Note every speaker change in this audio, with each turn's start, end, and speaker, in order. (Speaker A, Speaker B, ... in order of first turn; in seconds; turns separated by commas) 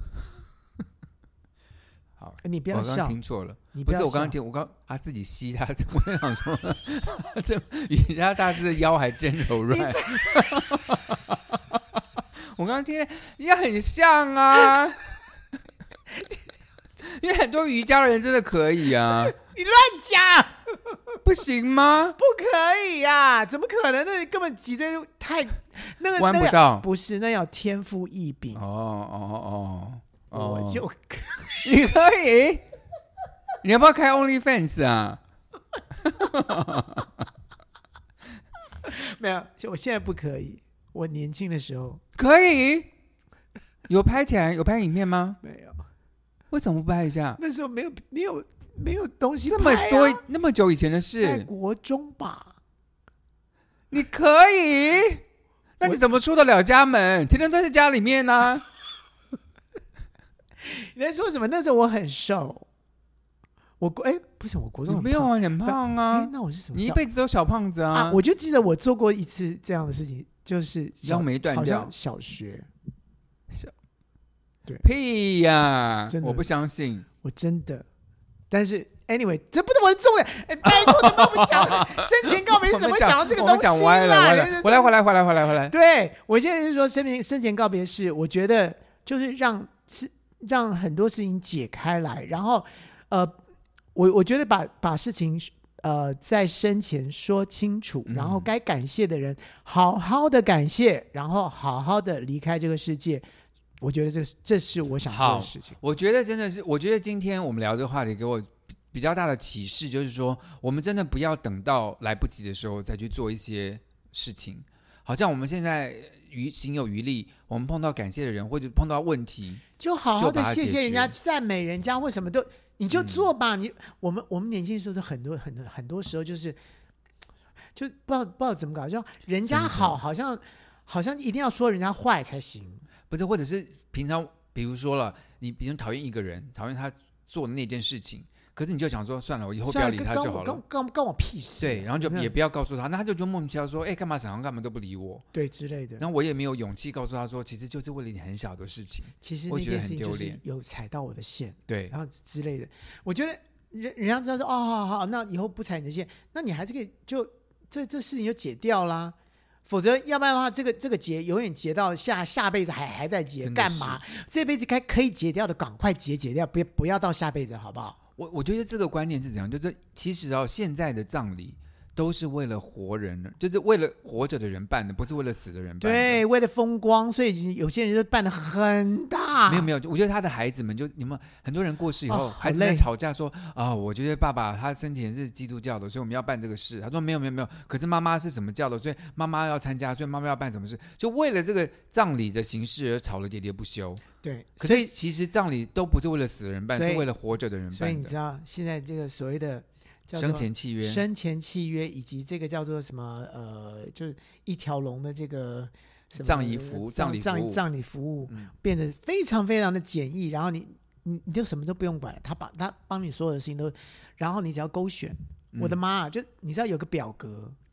Speaker A: 2.2-15.1, Speaker B: 2.4-3.2, Speaker B: 3.7-4.3, Speaker B: 9.7-10.6, Speaker A: 17.0-19.4, Speaker B: 19.2-21.0, Speaker A: 21.2-22.2, Speaker B: 22.2-28.6, Speaker A: 26.1-26.9, Speaker A: 28.5-30.8, Speaker B: 30.3-31.6, Speaker A: 31.6-32.6, Speaker A: 33.6-35.2, Speaker A: 36.0-37.2, Speaker B: 38.8-42.0, Speaker A: 42.1-42.9, Speaker A: 43.9-45.4, Speaker B: 45.4-45.8, Speaker A: 46.5-47.4, Speaker B: 47.4-50.2, Speaker A: 49.5-51.5, Speaker B: 51.2-52.6, Speaker A: 53.9-55.2, Speaker A: 55.8-58.6, Speaker B: 60.6-62.6, Speaker B: 63.8-67.0, Speaker A: 64.9-68.2, Speaker B: 67.9-72.7, Speaker A: 71.0-71.9, Speaker A: 74.8-77.1, Speaker B: 76.1-76.5, Speaker B: 77.2-77.9, Speaker B: 78.5-84.9, Speaker A: 80.6-85.7, Speaker B: 85.7-93.4, Speaker B: 94.0-103.2, Speaker A: 98.1-98.5, Speaker B: 103.8-105.8, Speaker A: 105.1-119.6, Speaker B: 119.8-126.6, Speaker A: 120.2-121.1, Speaker A: 122.9-123.3, Speaker B: 127.8-132.9, Speaker A: 129.5-130.0, Speaker A: 133.1-140.6, Speaker B: 139.6-142.3, Speaker A: 141.6-145.2, Speaker B: 145.3-146.0, Speaker A: 146.0-150.4, Speaker B: 149.2-159.1, Speaker A: 151.7-151.9, Speaker B: 159.7-168.0, Speaker A: 163.4-164.0, Speaker A: 168.2-176.2, Speaker B: 175.8-179.7, Speaker A: 179.5-194.0, Speaker B: 182.1-182.9, Speaker B: 194.2-194.9, Speaker A: 194.6-198.1, Speaker B: 196.7-197.1, Speaker B: 197.7-217.6, Speaker A: 200.1-201.0, Speaker A: 206.2-207.6, Speaker A: 215.5-215.8